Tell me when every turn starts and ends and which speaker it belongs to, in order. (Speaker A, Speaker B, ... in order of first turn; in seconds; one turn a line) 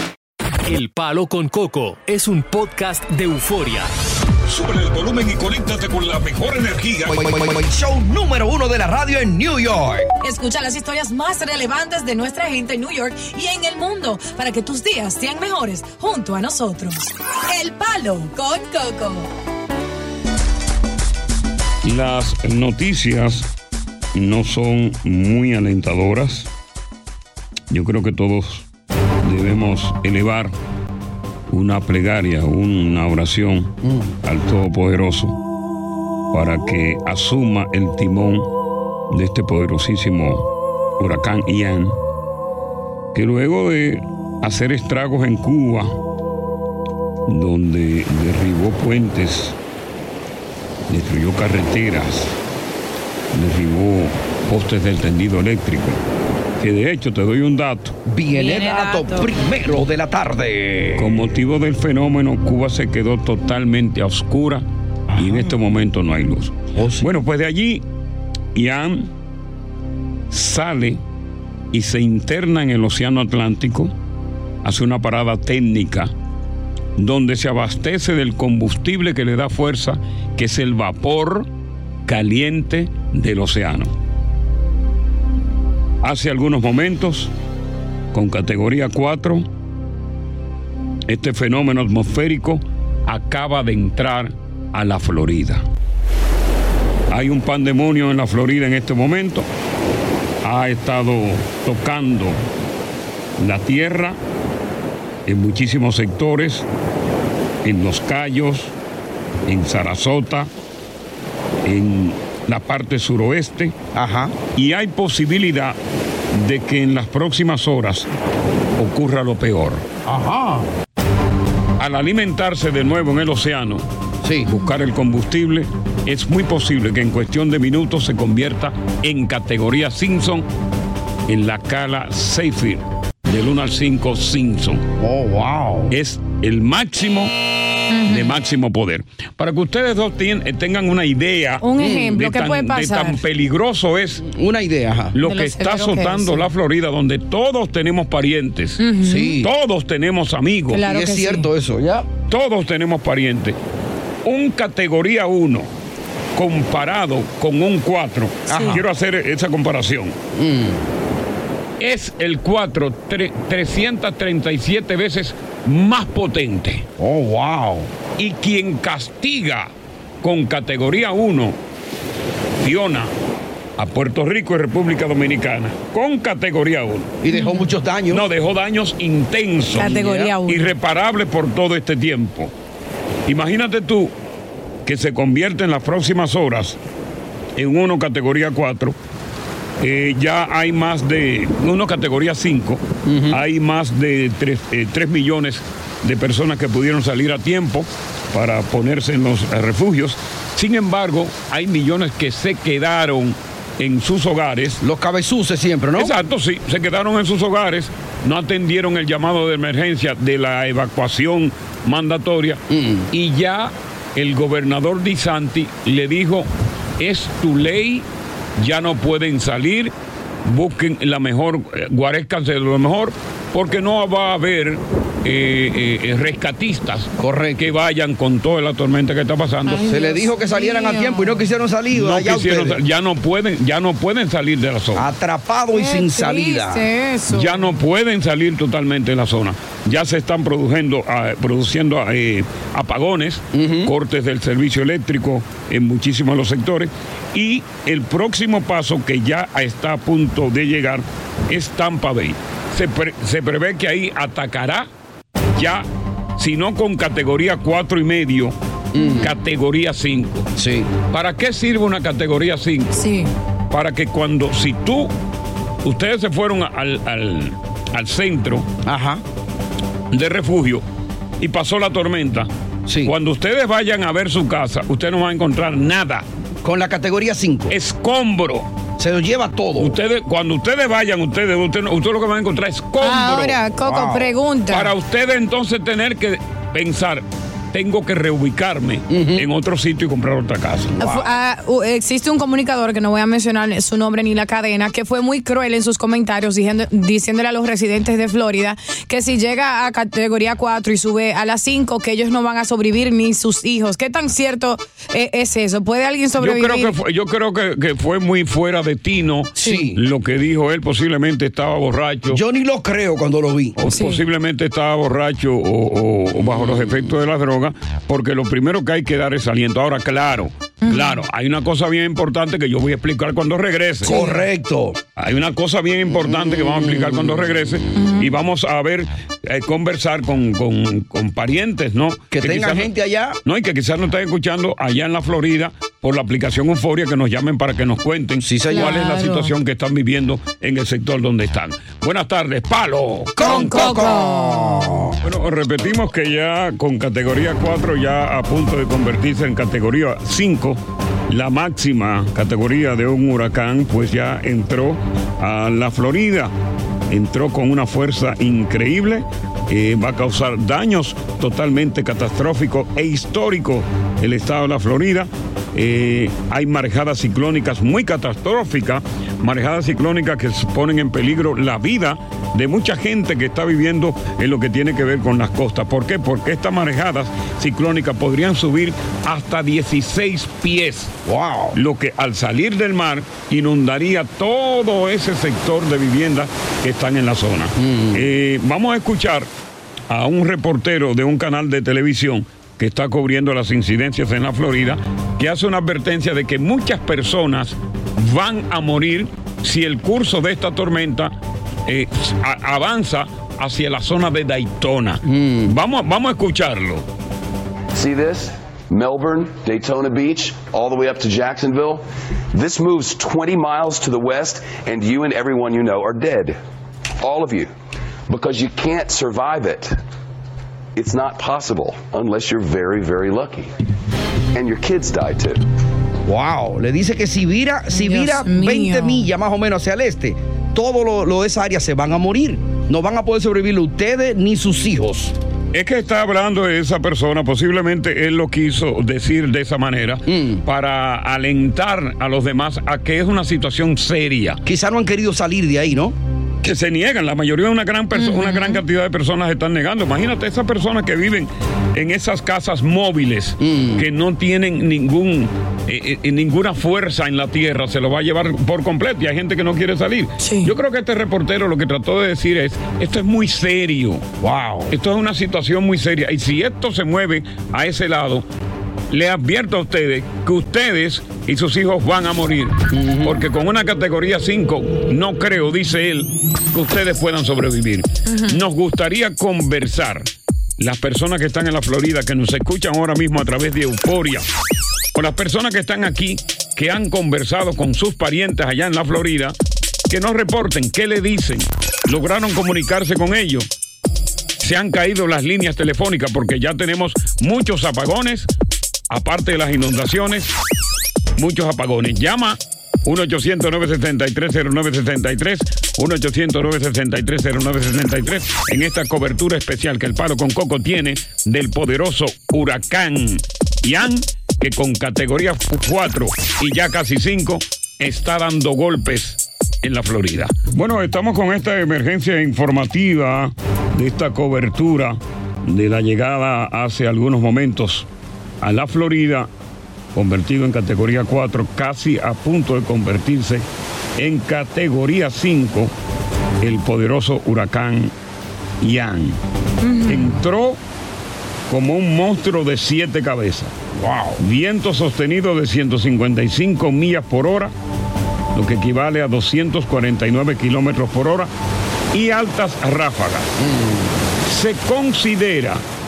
Speaker A: 0.7-3.9
Speaker B: 4.5-7.2
Speaker C: 7.1-10.1
Speaker D: 10.2-19.3
Speaker B: 21.8-23.5
Speaker B: 24.1-26.5
Speaker B: 27.7-28.7
Speaker B: 29.2-30.5
Speaker B: 31.5-33.7
Speaker C: 33.8-34.1
Speaker B: 34.2-35.4
Speaker B: 36.3-38.5
Speaker B: 39.1-40.5
Speaker B: 41.0-42.0
Speaker B: 43.1-45.9
Speaker B: 47.3-49.6
Speaker B: 50.9-52.4
Speaker B: 53.3-56.0
Speaker B: 56.6-58.0
Speaker C: 58.1-61.3
Speaker D: 58.3-59.3
Speaker B: 61.0-64.6
Speaker C: 65.1-65.5
Speaker B: 65.2-67.8
Speaker C: 66.8-67.1
Speaker B: 68.5-69.1
Speaker B: 70.3-71.0
Speaker B: 71.7-73.9
Speaker B: 74.6-76.1
Speaker B: 77.0-81.5
Speaker B: 82.1-83.9
Speaker B: 86.0-87.3
Speaker B: 88.1-89.4
Speaker B: 91.1-95.6
Speaker B: 97.1-99.5
Speaker B: 100.4-102.4
Speaker B: 103.4-104.2
Speaker B: 105.3-106.7
Speaker B: 107.6-108.7
Speaker B: 109.5-110.5
Speaker B: 111.7-113.8
Speaker C: 113.9-114.4
Speaker B: 114.5-115.8
Speaker B: 116.3-118.1
Speaker B: 118.8-119.8
Speaker C: 120.1-120.7
Speaker B: 121.8-123.9
Speaker C: 124.2-124.5
Speaker B: 124.5-130.5
Speaker B: 131.3-134.8
Speaker C: 135.0-135.9
Speaker B: 135.9-137.3
Speaker D: 137.9-138.4
Speaker B: 138.1-144.2
Speaker D: 141.6-143.2
Speaker C: 141.8-142.2
Speaker C: 144.2-145.2
Speaker B: 145.1-148.9
Speaker D: 145.2-146.5
Speaker D: 148.8-149.4
Speaker C: 149.0-149.5
Speaker B: 149.4-150.8
Speaker D: 150.7-151.5
Speaker C: 150.8-152.1
Speaker B: 152.3-153.6
Speaker B: 154.2-155.7
Speaker B: 156.4-160.2
Speaker C: 158.5-158.8
Speaker D: 158.5-158.8
Speaker C: 160.3-160.9
Speaker B: 161.8-166.9
Speaker C: 167.0-167.9
Speaker B: 168.2-171.6
Speaker B: 172.6-173.1
Speaker B: 173.8-177.1
Speaker C: 177.2-178.2
Speaker D: 177.3-177.7
Speaker B: 178.1-182.5
Speaker D: 179.7-180.7
Speaker B: 183.3-184.1
Speaker B: 184.9-186.8
Speaker B: 187.6-188.9
Speaker B: 189.8-204.8
Speaker C: 193.1-193.4
Speaker C: 204.8-206.1
Speaker B: 206.0-216.5
Speaker C: 212.7-213.1
Speaker B: 217.0-218.1
Speaker B: 218.6-219.9
Speaker B: 220.4-229.8
Speaker C: 227.2-227.7
Speaker D: 229.7-231.5
Speaker C: 229.8-232.8
Speaker B: 231.9-235.1
Speaker C: 234.9-236.9
Speaker D: 235.7-237.8
Speaker B: 237.3-254.9
Speaker C: 243.5-243.9
Speaker B: 255.6-255.8
Speaker B: 256.4-258.6
Speaker C: 258.9-259.3
Speaker D: 259.0-259.3
Speaker B: 259.2-260.5
Speaker C: 260.6-260.9
Speaker B: 261.1-263.0
Speaker D: 263.0-263.3
Speaker B: 263.7-265.1
Speaker B: 265.8-268.7
Speaker C: 268.9-269.2
Speaker B: 270.1-270.8
Speaker B: 271.4-272.5
Speaker C: 272.9-273.1
Speaker B: 273.0-276.2
Speaker C: 276.6-277.8
Speaker B: 277.7-278.7
Speaker C: 279.0-280.0
Speaker B: 279.8-283.6
Speaker D: 283.0-284.9
Speaker C: 283.8-284.3
Speaker B: 284.7-291.0
Speaker C: 289.1-289.5
Speaker C: 291.0-291.3
Speaker D: 291.0-306.9
Speaker B: 306.4-312.4
Speaker C: 309.6-310.0
Speaker C: 312.3-313.8
Speaker B: 313.8-324.2
Speaker D: 313.9-314.2
Speaker C: 316.6-317.1
Speaker D: 320.9-321.2
Speaker C: 324.0-325.0
Speaker D: 324.1-324.4
Speaker B: 325.2-332.9
Speaker C: 326.2-327.7
Speaker D: 328.0-328.3
Speaker C: 332.3-333.4
Speaker B: 333.4-344.1
Speaker C: 338.4-339.1
Speaker D: 338.7-339.5
Speaker C: 343.4-345.2
Speaker D: 343.4-344.9
Speaker B: 345.2-356.5
Speaker B: 357.1-381.1
Speaker C: 381.3-381.8
Speaker B: 381.8-389.5
Speaker C: 387.8-388.3
Speaker B: 390.1-401.3
Speaker B: 401.9-407.1
Speaker C: 405.2-405.8
Speaker E: 407.9-416.6
Speaker E: 417.2-417.7
Speaker E: 418.3-420.0
Speaker E: 421.0-423.7
Speaker E: 424.5-425.6
Speaker C: 426.3-435.3
Speaker D: 427.9-429.3
Speaker B: 435.7-444.6
Speaker C: 440.3-440.6
Speaker C: 444.6-446.1
Speaker B: 446.6-464.2
Speaker D: 448.2-448.8
Speaker C: 453.6-454.1
Speaker D: 460.4-460.7
Speaker C: 464.4-464.9
Speaker B: 464.9-468.4
Speaker B: 469.1-480.3
Speaker C: 472.9-473.4
Speaker B: 480.8-484.4
Speaker B: 485.1-489.6
Speaker B: 490.1-493.7
Speaker B: 494.6-498.5
Speaker B: 499.1-500.6
Speaker B: 501.4-528.1
Speaker B: 528.6-529.5
Speaker B: 530.1-533.6
Speaker B: 534.2-535.9
Speaker B: 536.6-538.1
Speaker B: 538.8-539.4
Speaker D: 539.8-540.3
Speaker B: 540.1-540.8
Speaker B: 541.7-543.7
Speaker C: 544.0-544.4
Speaker B: 544.4-547.7
Speaker B: 548.5-551.5
Speaker B: 552.1-553.5
Speaker C: 553.6-554.1
Speaker B: 554.5-555.8